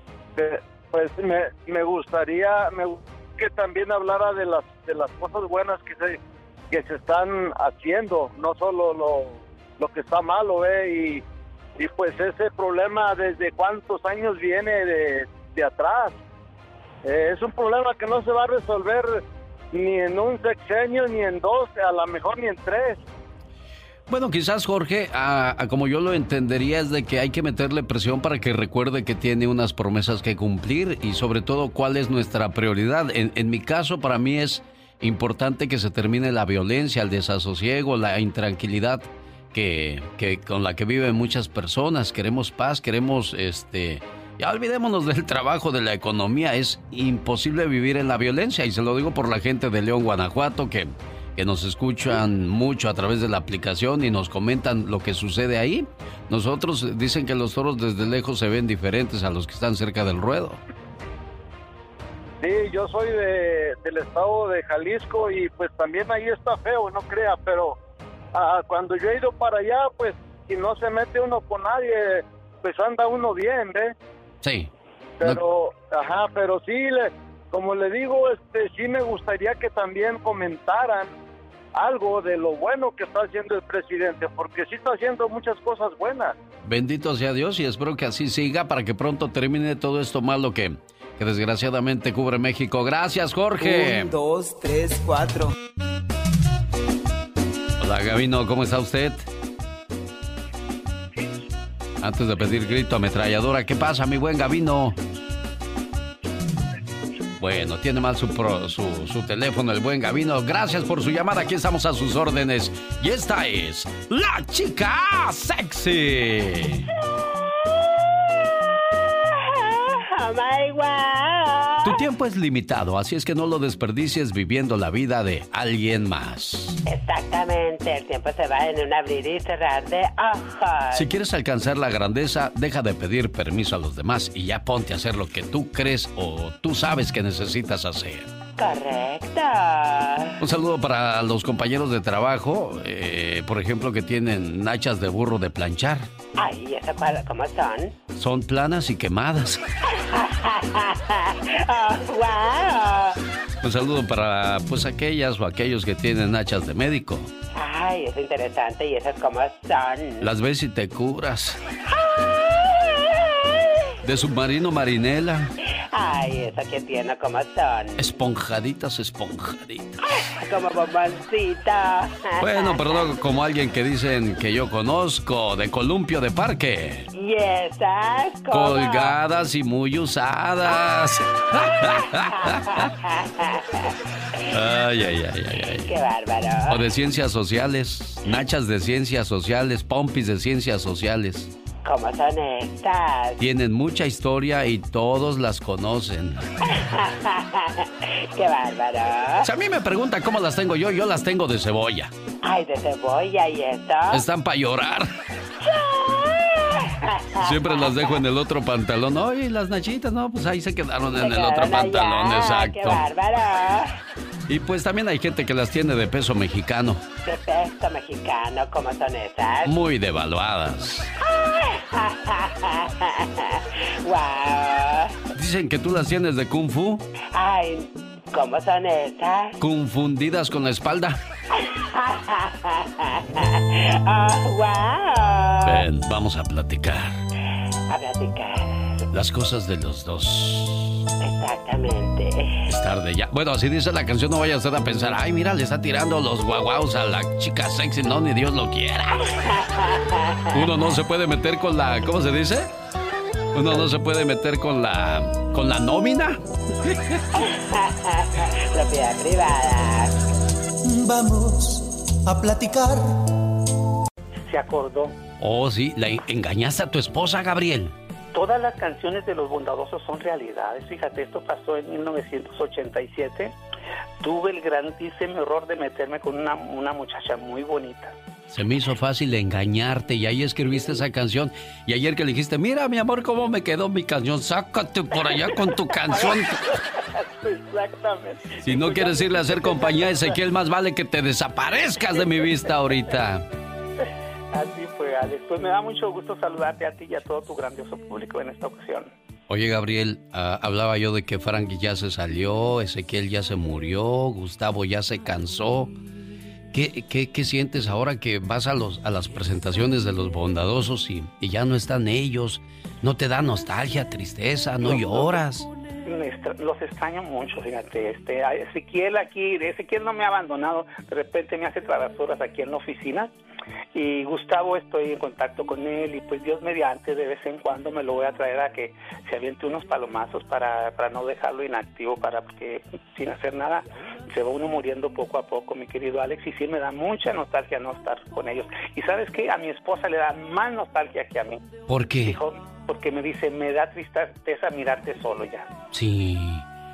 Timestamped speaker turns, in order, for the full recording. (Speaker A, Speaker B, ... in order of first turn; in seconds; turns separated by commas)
Speaker A: 0.3-6.2, Speaker A: 6.7-11.2, Speaker A: 11.8-16.2, Speaker A: 17.0-19.2, Speaker A: 19.7-23.0, Speaker B: 24.1-60.6, Speaker A: 62.4-67.8, Speaker A: 68.3-73.9, Speaker B: 74.4-74.7, Speaker A: 75.2-81.1, Speaker A: 81.8-86.3, Speaker B: 86.7-94.1, Speaker B: 97.8-99.2, Speaker B: 102.0-105.0, Speaker B: 107.4-116.8, Speaker C: 119.3-122.0, Speaker B: 121.8-126.8, Speaker C: 126.8-131.1, Speaker B: 130.9-138.3, Speaker C: 138.6-140.3, Speaker B: 140.4-146.1, Speaker C: 146.4-147.9, Speaker B: 148.1-149.6, Speaker C: 150.1-153.2, Speaker B: 153.6-157.3, Speaker C: 157.5-160.3, Speaker B: 160.2-161.6, Speaker C: 161.9-163.7, Speaker B: 164.0-165.5, Speaker C: 165.9-168.1, Speaker B: 168.0-170.0, Speaker C: 170.1-173.1, Speaker B: 172.4-177.1, Speaker C: 177.2-179.2, Speaker B: 178.5-182.9, Speaker C: 182.0-183.9, Speaker B: 184.5-185.9, Speaker C: 185.8-186.9, Speaker B: 186.7-191.5, Speaker C: 191.8-193.4, Speaker B: 193.4-196.5, Speaker C: 196.7-199.5, Speaker B: 199.4-202.1, Speaker C: 202.4-204.2, Speaker B: 204.1-205.1, Speaker C: 205.6-208.2, Speaker B: 207.4-213.0, Speaker C: 211.1-213.9, Speaker B: 214.5-217.0, Speaker C: 217.2-219.7, Speaker B: 219.6-221.1, Speaker C: 221.2-225.1, Speaker B: 225.3-227.0, Speaker C: 227.3-229.5, Speaker B: 229.6-231.2, Speaker C: 231.5-235.8, Speaker B: 235.6-237.2, Speaker C: 237.9-239.0, Speaker B: 239.1-241.0, Speaker C: 241.2-242.6, Speaker B: 242.7-249.4, Speaker C: 249.4-250.7, Speaker B: 250.5-252.7, Speaker B: 253.5-257.1, Speaker C: 257.4-260.1, Speaker D: 260.9-263.1, Speaker E: 264.4-265.2, Speaker B: 265.4-267.9, Speaker E: 268.3-273.5, Speaker E: 274.2-278.2, Speaker B: 278.5-286.6, Speaker E: 286.1-286.6, Speaker E: 287.2-290.3, Speaker B: 288.6-293.4, Speaker E: 294.5-299.1, Speaker B: 299.5-305.9, Speaker B: 306.7-315.6, Speaker E: 314.8-315.4, Speaker E: 316.0-323.3, Speaker E: 323.9-345.7, Speaker B: 341.9-342.4, Speaker B: 345.9-346.6